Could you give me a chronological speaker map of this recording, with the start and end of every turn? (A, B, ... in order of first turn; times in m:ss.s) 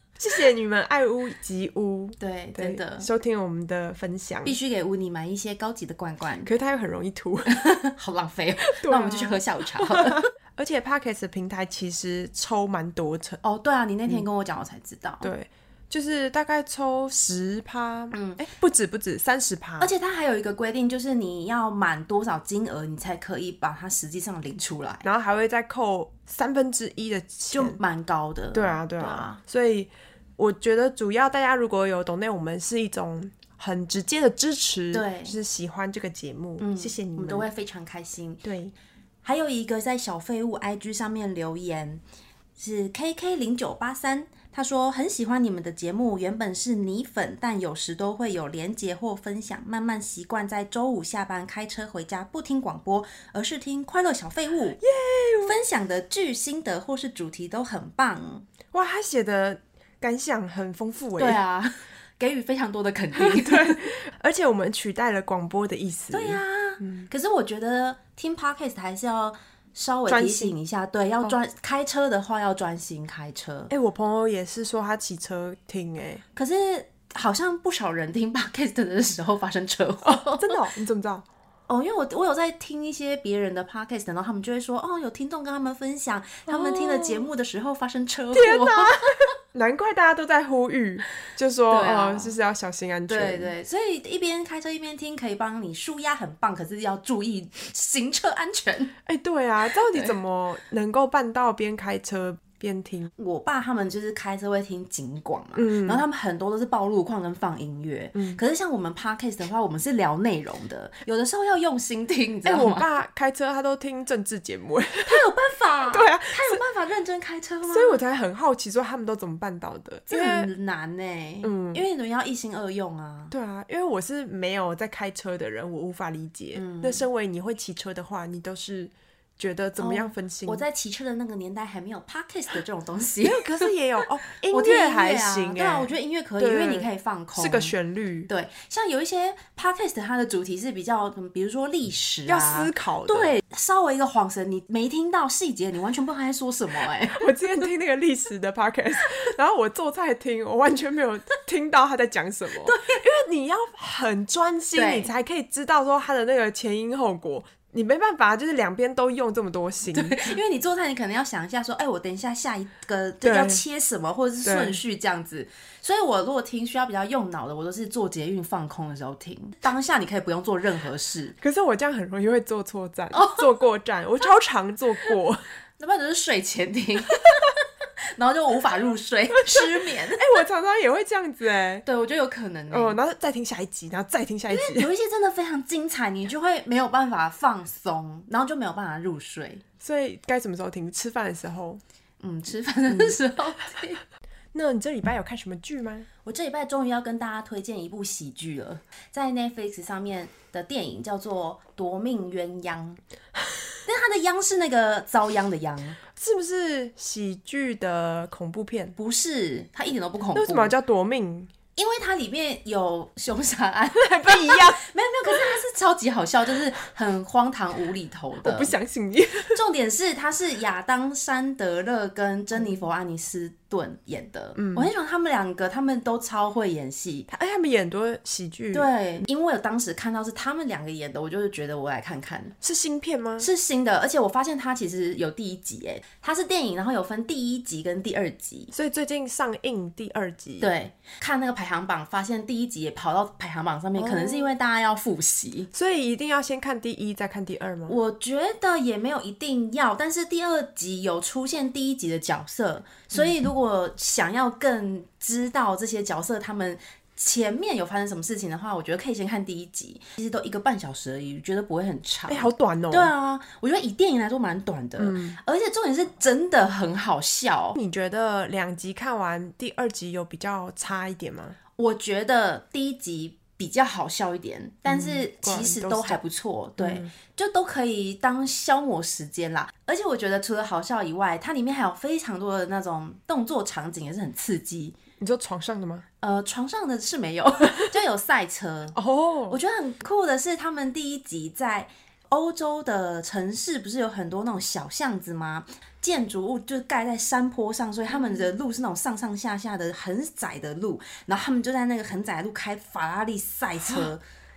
0:00.2-0:04.6 A
0:02.2-0:03.1 B
0:04.4-0:06.5 B
0:06.4-0:07.5 A
0:07.5-0:10.3 B
0:08.7-0:13.4 A
0:13.4-0:15.3 B
0:15.2-0:19.9 A
0:18.1-0:18.4 B
0:19.8-0:25.1 B
0:25.0-0:27.8 A
0:27.5-0:29.4 B
0:28.5-0:37.5 A
0:34.9-0:35.4 B
0:36.6-0:38.5 B
0:38.4-0:38.7 A
0:39.2-0:42.0 B
0:42.6-0:54.8 B
0:54.8-0:55.5 A
0:55.4-0:58.4 B
0:58.7-1:01.4 A
1:01.2-1:03.9 B
1:03.2-1:07.1 A
1:06.1-1:13.7 B
1:10.1-1:10.5 A
1:13.7-1:16.2 A
1:16.4-1:20.6 B
1:20.0-1:21.2 A
1:21.7-1:29.3 B
1:26.5-1:27.2 A
1:28.3-1:33.5 A
1:31.7-1:32.3 B
1:33.1-1:38.9 B
1:39.0-1:43.1 A
1:39.9-1:40.2 B
1:43.2-1:52.9 B
1:45.6-1:46.0 A
1:48.1-1:48.4 A
1:52.4-1:55.3 A
1:55.0-1:58.0 B
1:55.9-1:56.6 A
1:57.7-2:00.5 A
2:00.1-2:03.3 B
2:01.4-2:01.8 A
2:03.3-2:10.6 A
2:06.5-2:07.0 B
2:09.8-2:17.7 B
2:13.2-2:18.3 A
2:18.3-2:27.3 B
2:22.3-2:23.3 A
2:27.1-2:40.4 A
2:32.5-2:33.0 B
2:34.7-2:35.1 B
2:39.9-2:51.4 B
2:43.2-2:43.6 A
2:44.4-2:44.8 A
2:51.4-2:55.4 A
2:53.1-2:53.5 B
2:55.8-2:57.6 B
2:58.1-3:00.3 B
2:59.4-3:01.8 A
3:01.8-3:03.0 B
3:02.7-3:04.9 A
3:04.5-3:09.6 B
3:09.8-3:11.8 A
3:12.2-3:14.0 B
3:12.9-3:13.2 A
3:14.5-3:16.1 A
3:16.2-3:23.0 B
3:23.8-3:26.0 B
3:26.2-3:29.0 A
3:29.0-3:30.7 B
3:30.3-3:31.5 A
3:31.8-3:38.7 B
3:34.0-3:35.6 A
3:38.4-3:39.6 A
3:39.5-3:47.3 B
3:44.6-3:44.9 A
3:47.3-3:48.9 A
3:48.7-3:52.5 B
3:52.6-3:53.5 A
3:53.4-3:58.7 B
3:58.7-4:00.7 A
4:00.6-4:05.7 B
4:04.0-4:04.5 A
4:05.7-4:08.0 A
4:07.9-4:27.8 B
4:22.3-4:23.1 A
4:25.0-4:25.4 A
4:27.8-4:31.6 A
4:31.8-4:45.0 B
4:34.9-4:36.2 A
4:36.8-4:37.1 A
4:45.2-4:46.0 A
4:46.2-4:49.0 B
4:48.9-4:49.6 A
4:49.5-5:04.2 B
4:58.1-4:58.4 A
5:03.8-5:04.1 A